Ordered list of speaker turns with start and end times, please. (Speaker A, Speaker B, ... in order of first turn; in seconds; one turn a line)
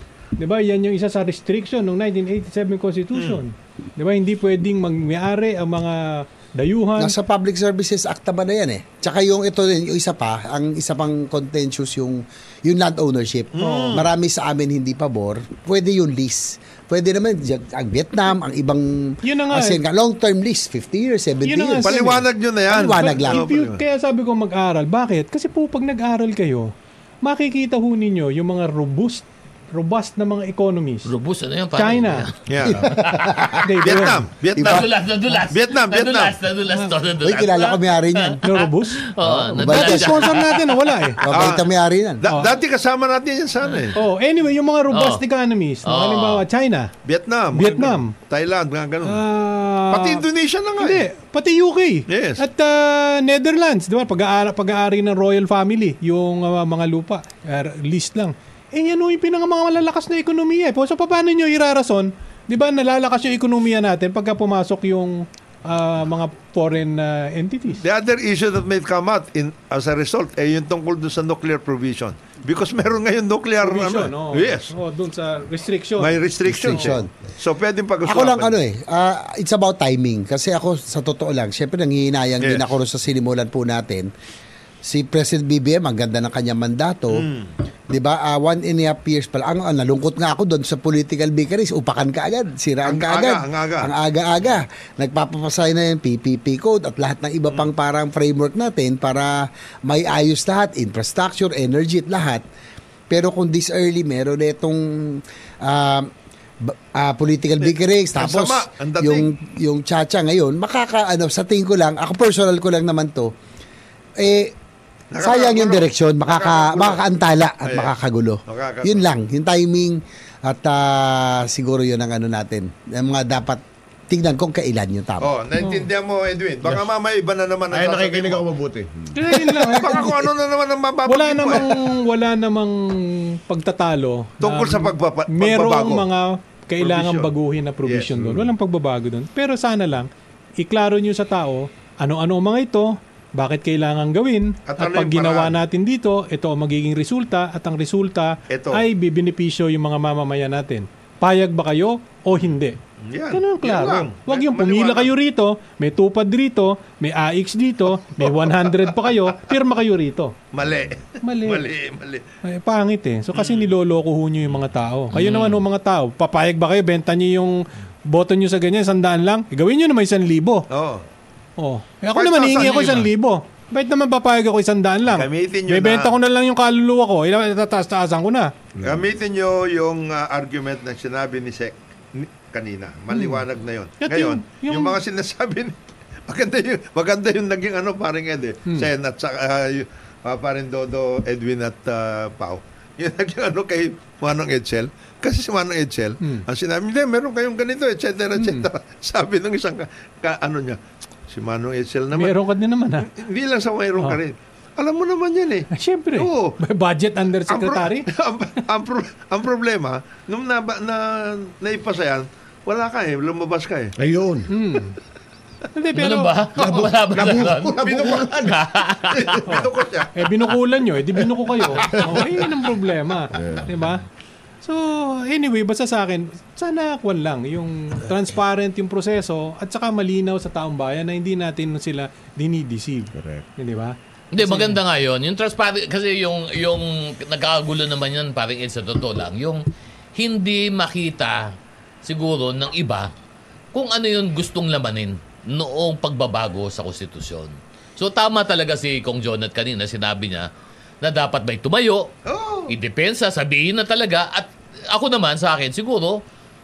Speaker A: 0.4-7.1
Speaker B: 3.1-3.4
Speaker C: 7.0-22.1
Speaker B: 13.5-14.1
Speaker A: 13.6-14.0
Speaker A: 19.2-19.8
Speaker A: 21.4-22.2
Speaker B: 21.8-23.8
Speaker C: 22.7-23.5
Speaker A: 22.8-26.7
Speaker A: 27.2-31.1
Speaker D: 31.1-33.3
Speaker A: 31.8-32.3
Speaker B: 32.5-32.9
Speaker C: 32.7-33.6
Speaker A: 33.6-34.2
Speaker B: 33.8-36.4
Speaker D: 34.5-40.8
Speaker C: 37.2-38.4
Speaker A: 38.4-39.1
Speaker C: 39.2-40.3
Speaker A: 39.6-41.2
Speaker C: 41.2-42.2
Speaker B: 41.3-41.6
Speaker B: 42.2-44.0
Speaker A: 43.9-46.9
Speaker D: 44.9-45.2
Speaker D: 45.9-46.4
Speaker B: 47.0-49.2
Speaker A: 47.5-48.1
Speaker A: 49.0-50.2
Speaker B: 49.9-51.0
Speaker A: 50.8-67.8
Speaker B: 52.1-52.4
Speaker B: 67.8-74.7
Speaker A: 73.6-76.1
Speaker B: 76.0-78.6
Speaker C: 76.5-77.1
Speaker C: 78.0-84.1
Speaker B: 82.4-82.7
Speaker C: 84.8-87.2
Speaker B: 87.1-87.5
Speaker C: 87.9-102.4
Speaker B: 92.8-93.9
Speaker C: 103.1-106.1
Speaker C: 106.6-113.3
Speaker B: 107.6-109.3
Speaker C: 114.2-114.5
Speaker B: 115.1-117.0
Speaker C: 115.2-125.3
Speaker B: 117.6-117.9
Speaker B: 118.5-119.1
Speaker B: 125.2-128.4
Speaker A: 125.6-125.8
Speaker E: 127.7-129.2
Speaker A: 129.1-130.2
Speaker B: 129.3-131.7
Speaker A: 131.1-152.8
Speaker B: 134.4-136.1
Speaker B: 136.8-137.3
Speaker B: 137.8-138.1
Speaker E: 138.2-138.5
Speaker B: 144.7-145.6
Speaker B: 148.5-148.8
Speaker B: 153.0-155.1
Speaker A: 153.3-160.3
Speaker B: 158.2-158.8
Speaker B: 160.5-162.2
Speaker A: 161.2-161.7
Speaker A: 162.4-170.7
Speaker B: 163.3-163.7
Speaker D: 165.1-165.6
Speaker B: 170.7-171.0
Speaker A: 171.6-178.6
Speaker B: 172.1-173.1
Speaker B: 175.1-176.1
Speaker B: 178.8-202.4
Speaker A: 183.1-183.4
Speaker A: 184.0-184.9
Speaker A: 196.2-196.4
Speaker A: 198.3-198.7
Speaker A: 202.1-203.1
Speaker B: 203.0-206.6
Speaker A: 205.7-208.1
Speaker B: 207.5-213.9
Speaker E: 214.0-214.5
Speaker A: 214.5-215.0
Speaker A: 215.7-216.4
Speaker D: 215.9-219.4
Speaker E: 216.6-218.8
Speaker B: 217.8-218.2
Speaker B: 219.1-220.1
Speaker A: 219.4-224.0
Speaker E: 221.8-222.4
Speaker E: 223.3-223.7
Speaker A: 224.6-234.8
Speaker E: 233.1-233.4
Speaker D: 234.3-239.6
Speaker D: 240.2-241.5
Speaker D: 242.0-243.1
Speaker D: 243.7-250.5
Speaker D: 251.0-252.1
Speaker B: 252.2-252.7
Speaker D: 252.7-256.2